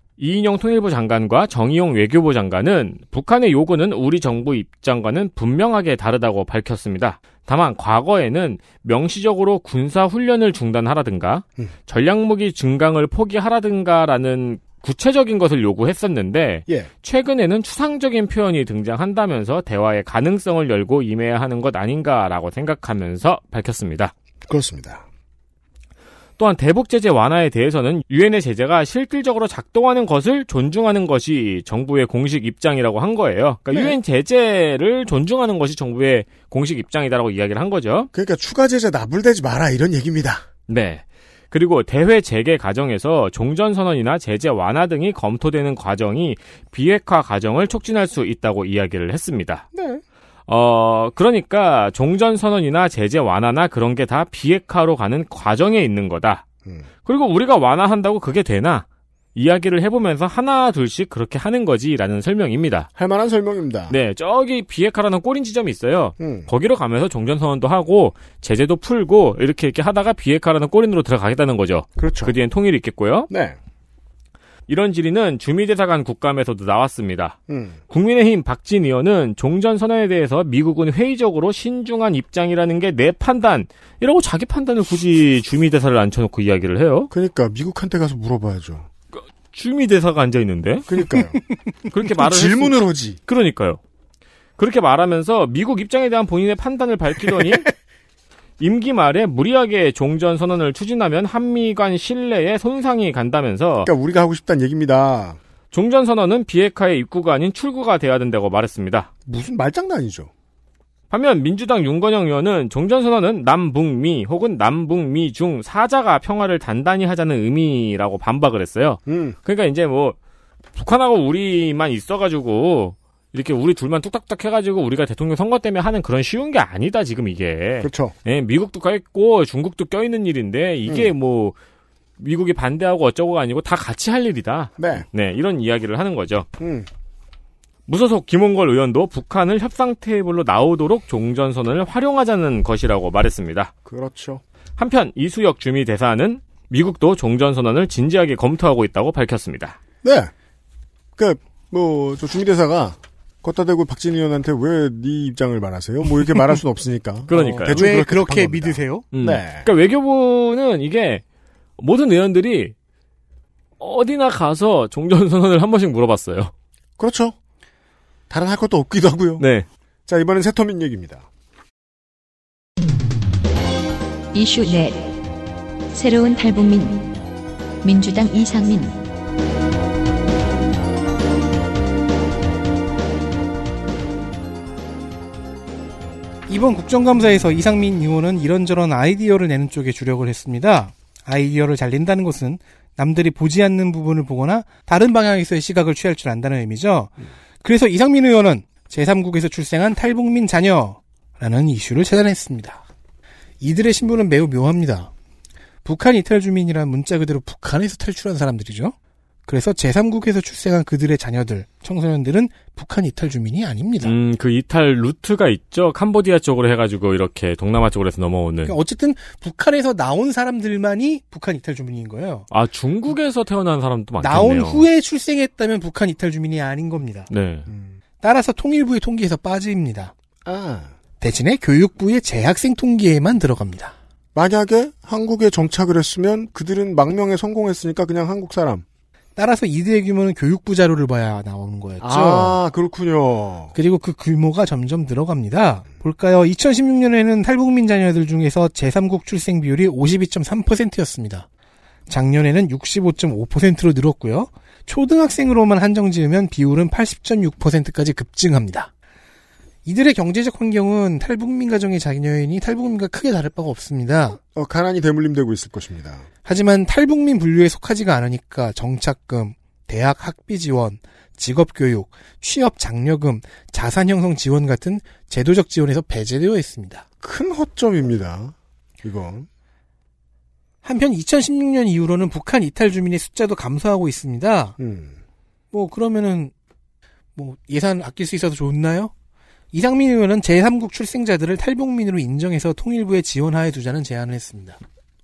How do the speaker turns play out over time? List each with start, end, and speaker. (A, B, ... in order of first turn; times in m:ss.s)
0:00.2-0:24.1 A
0:24.5-0:25.0 B
0:26.4-0:38.1 A
0:33.7-0:34.0 B
0:38.1-0:40.4 B
0:40.7-0:49.6 A
0:49.7-0:50.0 B
0:50.5-0:56.4 A
0:57.0-1:02.9 A
1:03.0-1:03.9 B
1:03.9-1:13.3 A
1:06.2-1:06.5 B
1:12.0-1:12.4 B
1:13.3-1:13.6 B
1:14.7-1:17.4 A
1:17.5-1:17.8 B
1:17.9-1:27.1 A
1:27.1-1:28.9 B
1:29.1-1:31.0 A
1:30.9-1:31.4 B
1:31.9-1:33.8 A
1:32.2-1:33.2 B
1:34.6-1:37.7 A
1:38.6-1:43.9 A
1:43.8-1:45.4 B
1:45.7-1:49.1 A
1:49.2-1:50.3 B
1:51.1-2:00.2 A
1:59.1-1:59.4 B
2:00.7-2:11.6 A
2:07.8-2:08.1 B
2:12.2-2:16.4 A
2:14.8-2:15.0 B
2:16.6-2:16.9 B
2:17.9-2:23.7 A
2:23.8-2:24.4 B
2:24.8-2:29.8 A
2:30.0-2:30.3 B
2:31.2-2:39.7 B
2:37.3-2:37.8 A
2:37.3-2:39.1 C
2:39.1-2:41.2 A
2:41.8-2:42.7 A
2:43.8-2:46.5 A
2:47.0-2:47.4 B
2:48.3-2:49.4 B
2:49.4-2:49.6 A
2:50.1-2:51.2 B
2:54.3-2:55.2 D
2:55.9-2:57.2 D
2:57.8-2:59.0 D
3:06.5-3:22.8 C
3:23.6-3:25.1 C
3:25.8-3:28.9 C
3:29.5-3:34.1 C
3:34.0-3:38.7 A
3:38.6-3:42.4 C
3:42.5-3:44.8 A
3:44.2-3:47.3 C
3:47.3-3:47.7 A
3:47.7-3:48.0 B
3:48.2-3:50.1 C
3:50.4-3:50.9 B
3:51.2-3:53.9 C
3:54.3-3:58.8 B
3:59.4-4:02.6 C
4:02.0-4:03.7 B
4:03.7-4:11.4 C
4:12.1-4:18.9 C
4:19.8-4:24.4 C
4:24.4-4:26.2 B
4:26.4-4:37.0 C
4:37.2-4:39.5 B
4:40.8-4:44.8 C
4:44.8-4:45.2 B
4:45.7-4:46.5 C
4:47.4-4:49.1 C
4:49.7-4:54.8 C